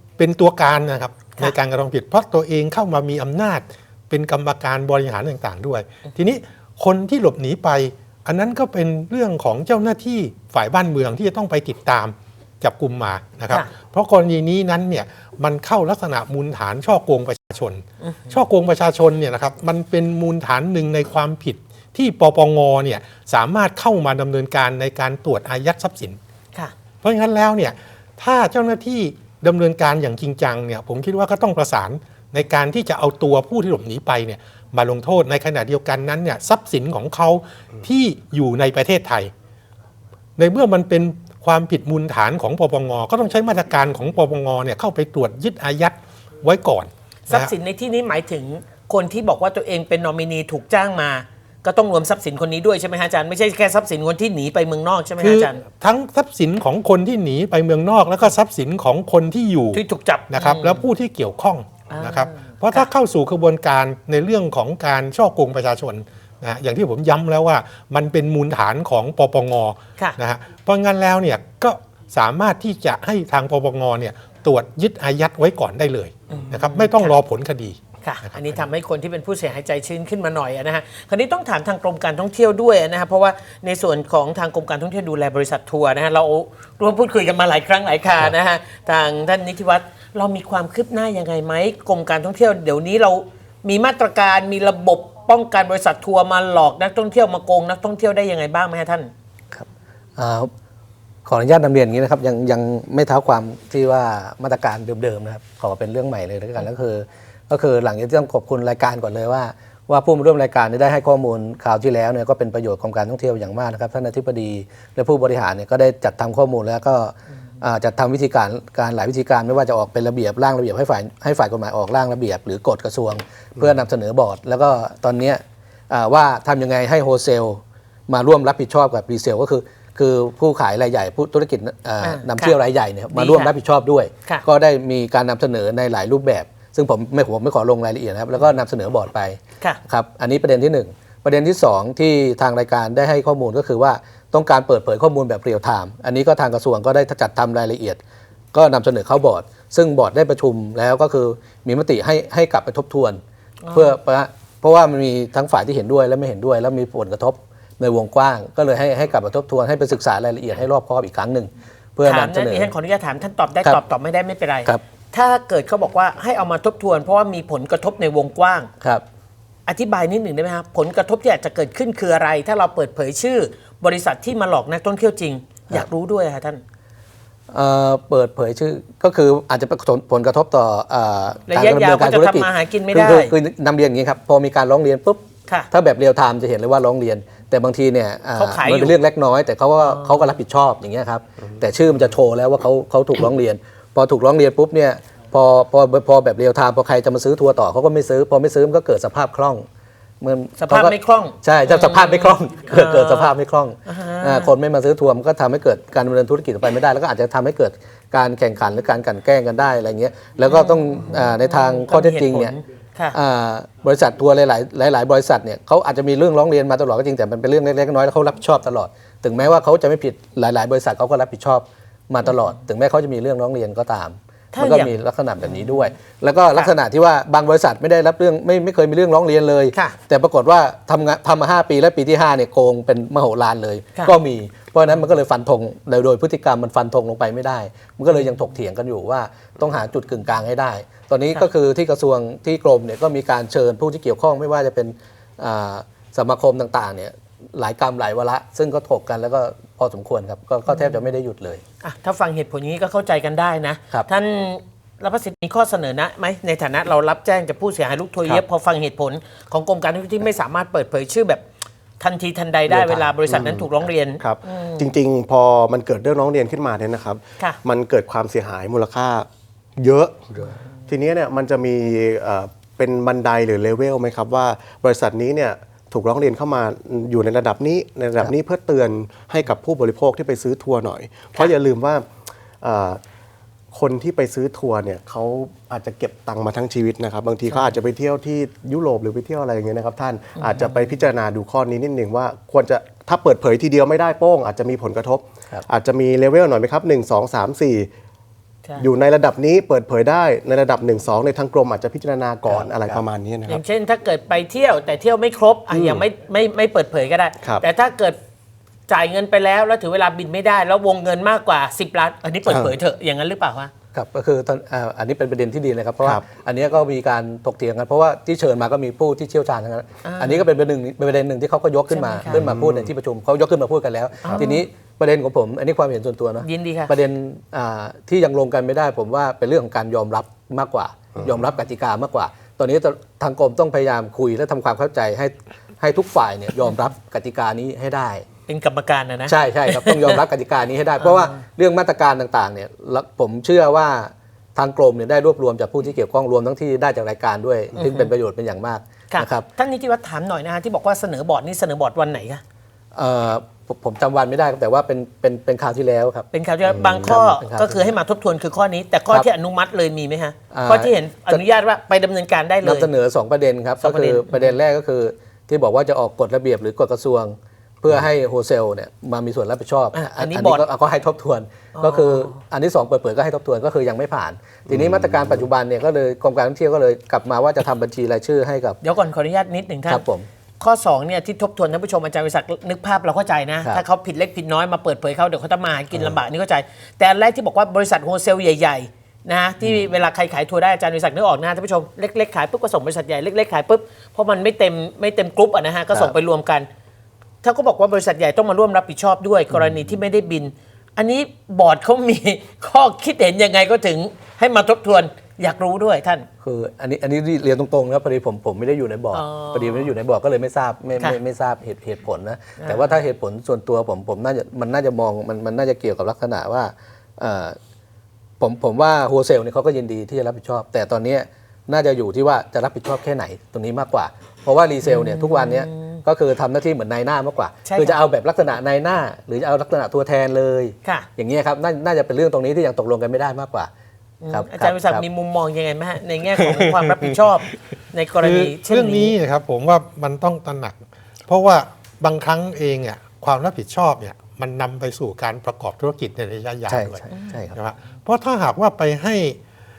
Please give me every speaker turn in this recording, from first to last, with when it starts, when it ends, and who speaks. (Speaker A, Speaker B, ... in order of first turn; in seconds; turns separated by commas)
Speaker A: 0.2-26.2, Speaker B: 18.0-18.3, Speaker A: 27.0-39.3, Speaker A: 40.4-47.5, Speaker B: 47.3-55.6, Speaker A: 55.2-78.5, Speaker B: 59.7-60.8, Speaker B: 61.9-62.9, Speaker B: 76.3-77.2, Speaker B: 78.0-99.1, Speaker C: 99.5-100.5, Speaker C: 101.2-148.0, Speaker B: 132.0-132.6, Speaker B: 133.1-133.5, Speaker C: 148.5-153.2, Speaker B: 153.6-154.0, Speaker C: 153.7-162.7, Speaker B: 162.0-168.7, Speaker B: 169.7-176.6, Speaker C: 177.5-199.7, Speaker B: 181.5-183.3, Speaker B: 188.4-189.0, Speaker B: 189.8-190.3, Speaker C: 200.2-212.6, Speaker B: 200.6-203.3, Speaker B: 203.9-204.5, Speaker B: 210.5-213.2, Speaker C: 213.1-251.6, Speaker B: 224.5-224.9, Speaker B: 251.8-261.4, Speaker B: 262.0-264.9, Speaker C: 262.7-263.4, Speaker D: 263.3-282.1, Speaker D: 282.6-283.0, Speaker D: 283.7-297.9, Speaker B: 290.4-290.9, Speaker D: 298.8-303.6, Speaker C: 302.5-303.0, Speaker B: 303.5-308.2, Speaker D: 305.7-306.0, Speaker B: 308.9-313.7, Speaker D: 312.5-312.7, Speaker C: 313.9-338.2, Speaker B: 320.0-320.5, Speaker B: 321.9-322.4, Speaker D: 322.3-322.9, Speaker B: 324.2-324.6, Speaker B: 326.4-326.9, Speaker B: 338.5-340.2, Speaker C: 339.3-349.5, Speaker B: 341.0-341.4, Speaker B: 347.8-348.1, Speaker B: 349.1-352.4, Speaker C: 352.9-356.3, Speaker B: 356.3-362.9, Speaker C: 356.8-357.9, Speaker C: 360.5-361.4, Speaker C: 362.6-378.8, Speaker B: 363.8-364.5, Speaker B: 369.9-370.6, Speaker B: 371.8-372.4, Speaker D: 374.7-375.4, Speaker B: 378.8-380.0, Speaker C: 379.9-380.3, Speaker B: 380.6-396.7, Speaker B: 397.4-406.2, Speaker C: 399.5-399.9, Speaker C: 406.4-417.6, Speaker B: 409.1-409.9, Speaker B: 412.6-412.9, Speaker C: 418.4-433.7, Speaker B: 424.8-426.0, Speaker B: 427.6-428.0, Speaker B: 434.2-439.1, Speaker C: 434.3-435.0, Speaker A: 438.2-449.4, Speaker C: 446.7-447.6, Speaker B: 447.1-447.4